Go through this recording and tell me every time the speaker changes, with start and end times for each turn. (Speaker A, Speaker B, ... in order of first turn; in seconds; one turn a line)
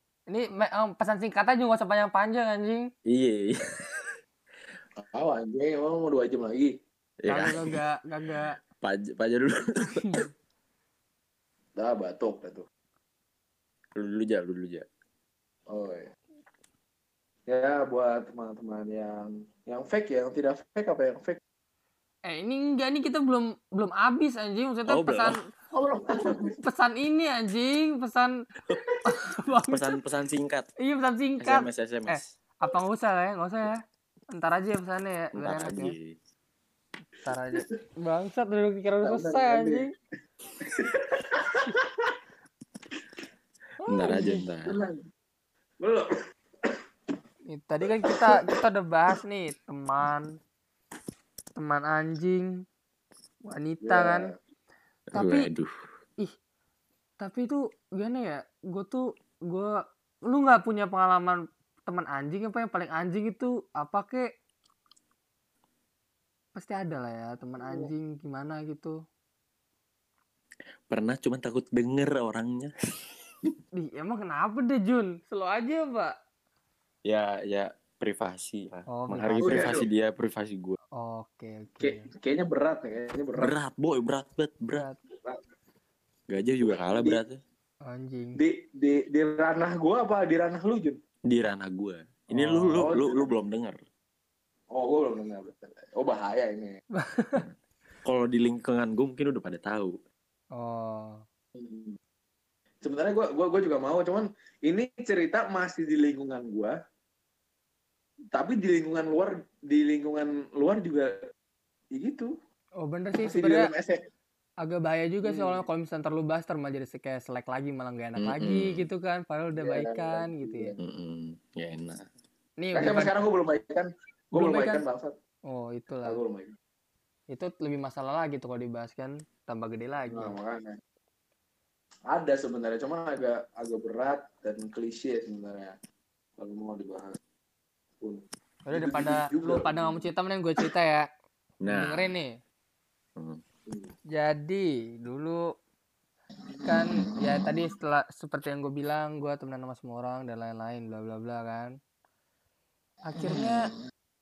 Speaker A: 0.3-2.9
Speaker B: 3.1-4.1
Speaker C: 5.0-6.8
Speaker B: 7.2-7.6
Speaker A: 7.3-8.6
Speaker B: 8.8-10.2
Speaker C: 11.8-12.7
Speaker B: 14.0-14.9
Speaker C: 15.7-16.1
Speaker C: 17.5-21.4
Speaker A: 22.3-25.4
Speaker B: 24.9-25.4
Speaker C: 25.7-26.6
Speaker A: 26.6-28.3
Speaker A: 29.1-29.9
Speaker B: 29.7-30.7
Speaker A: 30.8-33.8
Speaker B: 31.4-32.3
Speaker A: 34.3-35.9
Speaker B: 35.4-36.2
Speaker A: 37.2-39.9
Speaker C: 39.0-39.9
Speaker C: 40.6-42.2
Speaker B: 43.9-44.8
Speaker A: 43.9-44.4
Speaker C: 44.1-45.0
Speaker C: 45.8-46.1
Speaker A: 47.5-50.3
Speaker C: 48.0-48.4
Speaker A: 51.6-52.5
Speaker A: 53.5-54.3
Speaker C: 53.9-54.3
Speaker B: 55.1-55.7
Speaker A: 55.1-55.5
Speaker A: 57.2-59.7
Speaker A: 60.3-64.3
Speaker A: 66.6-69.0
Speaker C: 67.6-67.9
Speaker B: 70.9-72.7
Speaker A: 73.8-76.2
Speaker B: 77.1-80.8
Speaker A: 78.9-79.7
Speaker C: 79.4-79.8
Speaker A: 81.0-82.1
Speaker C: 81.8-83.5
Speaker B: 83.4-84.9
Speaker B: 86.3-87.4
Speaker C: 87.0-87.2
Speaker A: 87.8-88.4
Speaker C: 88.4-91.0
Speaker B: 91.3-93.8
Speaker A: 92.3-92.8
Speaker C: 92.7-93.3
Speaker C: 94.7-96.8
Speaker A: 97.0-97.5
Speaker B: 98.0-100.0
Speaker A: 100.5-101.2
Speaker C: 101.5-102.0
Speaker C: 102.8-106.8
Speaker C: 108.3-111.2
Speaker C: 112.0-112.3
Speaker A: 112.8-113.7
Speaker C: 113.2-114.0
Speaker A: 114.6-120.7
Speaker C: 115.2-115.6
Speaker B: 118.2-118.9
Speaker C: 119.6-120.8
Speaker B: 120.8-122.0
Speaker A: 122.6-123.1
Speaker C: 122.7-125.2
Speaker A: 124.3-124.8
Speaker A: 125.5-126.2
Speaker C: 126.0-126.5
Speaker A: 127.3-130.4
Speaker C: 130.1-130.8
Speaker C: 132.1-135.8
Speaker C: 136.4-137.2
Speaker C: 138.0-140.1
Speaker A: 138.7-141.1
Speaker B: 141.6-142.1
Speaker A: 141.7-142.3
Speaker C: 143.7-143.9
Speaker A: 144.1-145.4
Speaker C: 146.7-147.5
Speaker A: 146.7-151.8
Speaker A: 153.1-153.7
Speaker C: 153.3-153.5